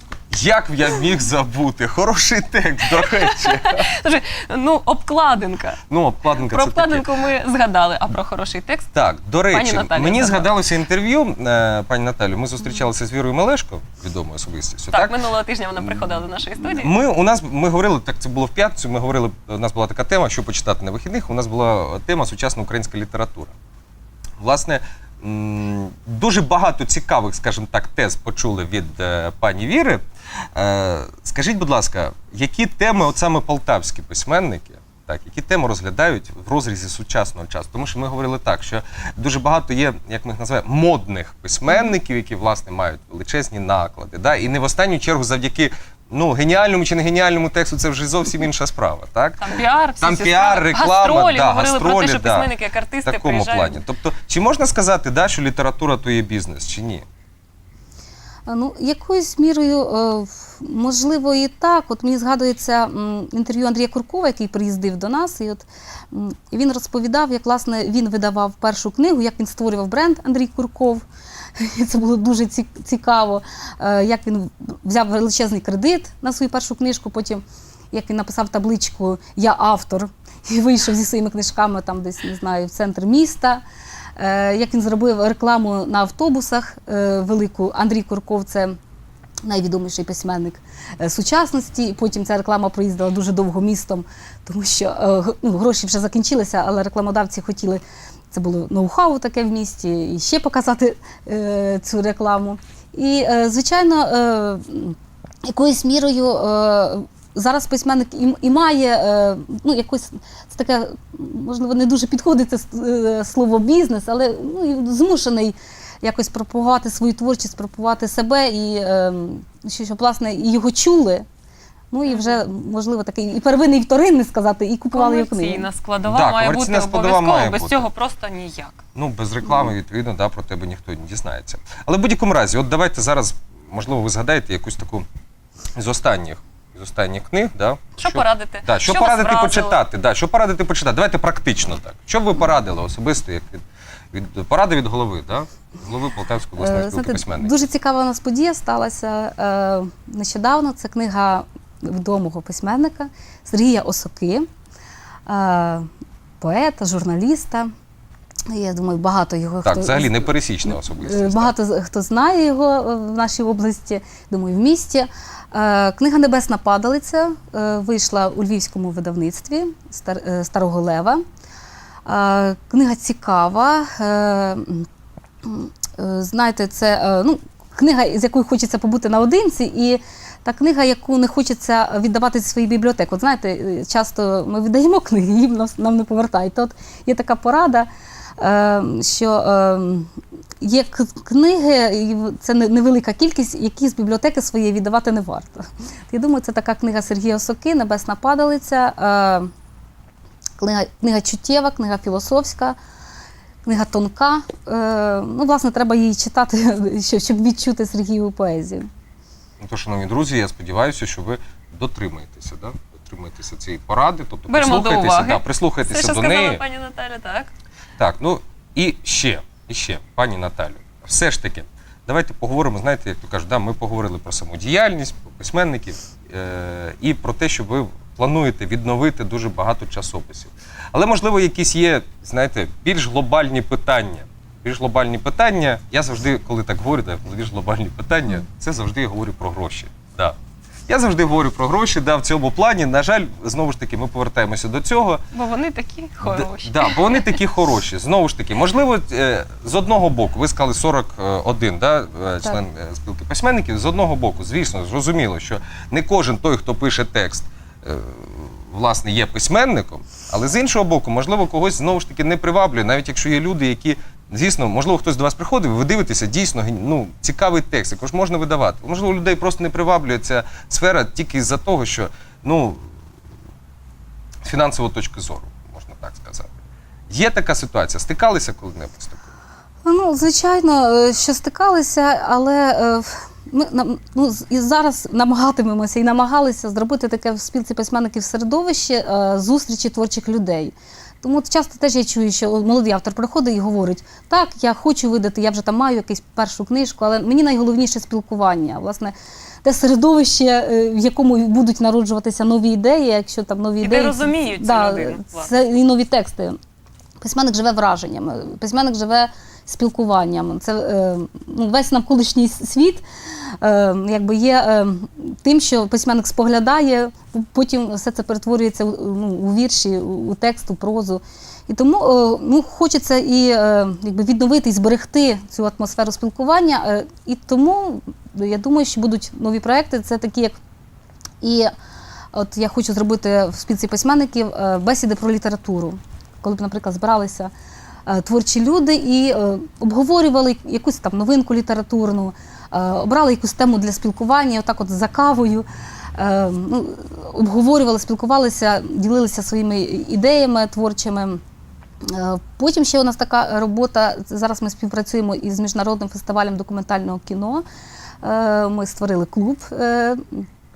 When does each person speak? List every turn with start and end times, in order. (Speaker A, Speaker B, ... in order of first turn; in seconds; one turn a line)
Speaker A: 0.3-3.9
Speaker B: 2.9-5.8
Speaker A: 5.9-7.1
Speaker B: 6.4-8.9
Speaker A: 8.9-15.2
Speaker B: 9.5-10.5
Speaker B: 14.9-16.9
Speaker A: 16.6-23.5
Speaker A: 24.4-30.0
Speaker A: 30.6-49.5
Speaker B: 49.4-53.8
Speaker A: 50.0-57.1
Speaker C: 58.5-71.0
Speaker C: 71.6-83.6
Speaker C: 84.2-88.8
Speaker C: 89.4-121.2
Speaker C: 121.9-125.7
Speaker B: 122.1-122.4
Speaker B: 124.9-128.8
Speaker A: 126.1-127.9
Speaker A: 128.9-135.1
Speaker A: 135.8-143.6
Speaker B: 138.0-139.8
Speaker A: 144.1-147.5
Speaker C: 146.6-154.5
Speaker C: 155.3-155.9
Speaker C: 156.4-157.7
Speaker C: 158.5-171.2
Speaker A: 159.6-161.5
Speaker C: 172.1-174.9
Speaker C: 175.4-199.5
Speaker C: 200.6-202.8
Speaker C: 203.6-208.9
Speaker A: 209.6-216.6
Speaker B: 214.5-217.5
Speaker A: 218.0-240.4
Speaker A: 240.9-245.2
Speaker B: 245.3-247.4
Speaker A: 246.2-272.8
Speaker A: 274.4-276.5
Speaker A: 277.1-279.2
Speaker C: 279.9-306.6
Speaker B: 303.8-305.5
Speaker C: 307.2-313.0
Speaker C: 313.6-330.6
Speaker C: 331.4-331.7
Speaker C: 332.3-337.5
Speaker C: 338.1-351.4
Speaker C: 352.0-357.6
Speaker C: 358.2-360.5